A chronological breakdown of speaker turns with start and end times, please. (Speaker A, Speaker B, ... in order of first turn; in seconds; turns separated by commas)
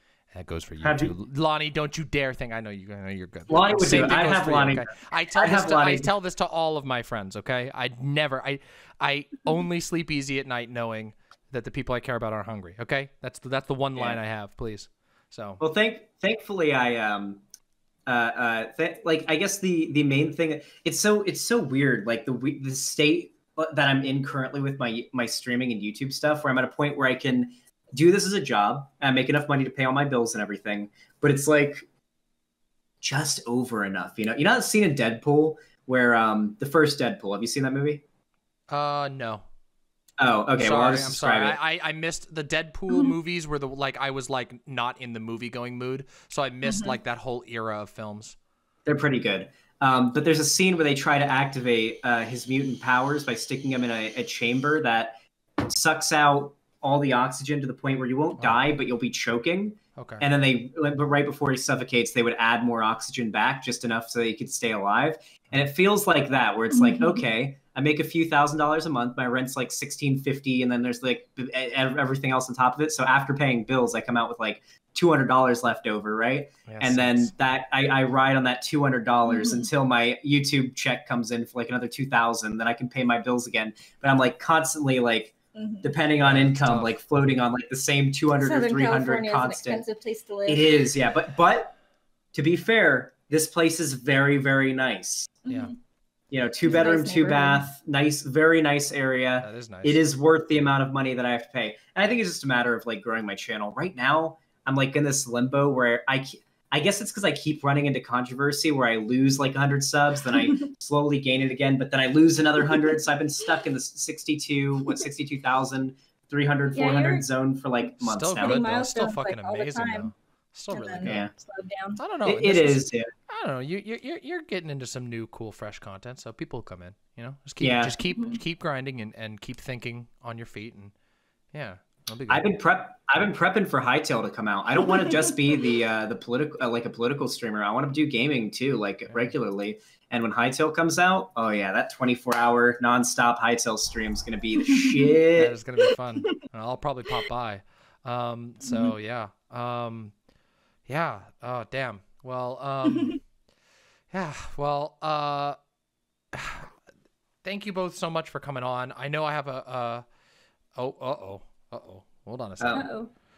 Speaker A: 0.3-15.6, Speaker B: 0.8-1.1, Speaker B: 3.5-6.1, Speaker B: 15.6-17.4, Speaker B: 18.1-31.9, Speaker B: 33.0-38.0, Speaker A: 38.7-39.4, Speaker B: 40.2-41.6, Speaker A: 40.6-48.4, Speaker C: 46.6-47.0, Speaker B: 48.9-89.8, Speaker A: 60.0-60.3, Speaker C: 66.7-67.2, Speaker A: 76.7-77.3, Speaker C: 79.3-79.7, Speaker C: 85.5-85.9, Speaker A: 86.2-87.0, Speaker C: 88.4-90.8, Speaker B: 90.5-91.8, Speaker B: 92.3-95.4, Speaker C: 95.5-95.7, Speaker A: 95.5-95.7, Speaker B: 96.3-118.7, Speaker C: 96.7-97.6, Speaker A: 99.4-100.0, Speaker C: 116.8-117.2, Speaker A: 118.0-121.2, Speaker C: 118.4-120.1, Speaker C: 120.7-122.0, Speaker B: 121.0-121.3, Speaker A: 122.0-130.9, Speaker B: 122.2-123.1, Speaker B: 127.6-128.0, Speaker A: 131.5-132.4, Speaker B: 132.3-145.5, Speaker A: 139.1-139.3, Speaker C: 144.6-145.1, Speaker A: 145.3-150.1, Speaker C: 148.6-148.9, Speaker A: 150.9-153.2, Speaker A: 154.1-155.6, Speaker A: 156.3-156.7, Speaker A: 157.4-160.0, Speaker A: 160.8-162.9, Speaker B: 162.6-162.9, Speaker C: 162.7-163.1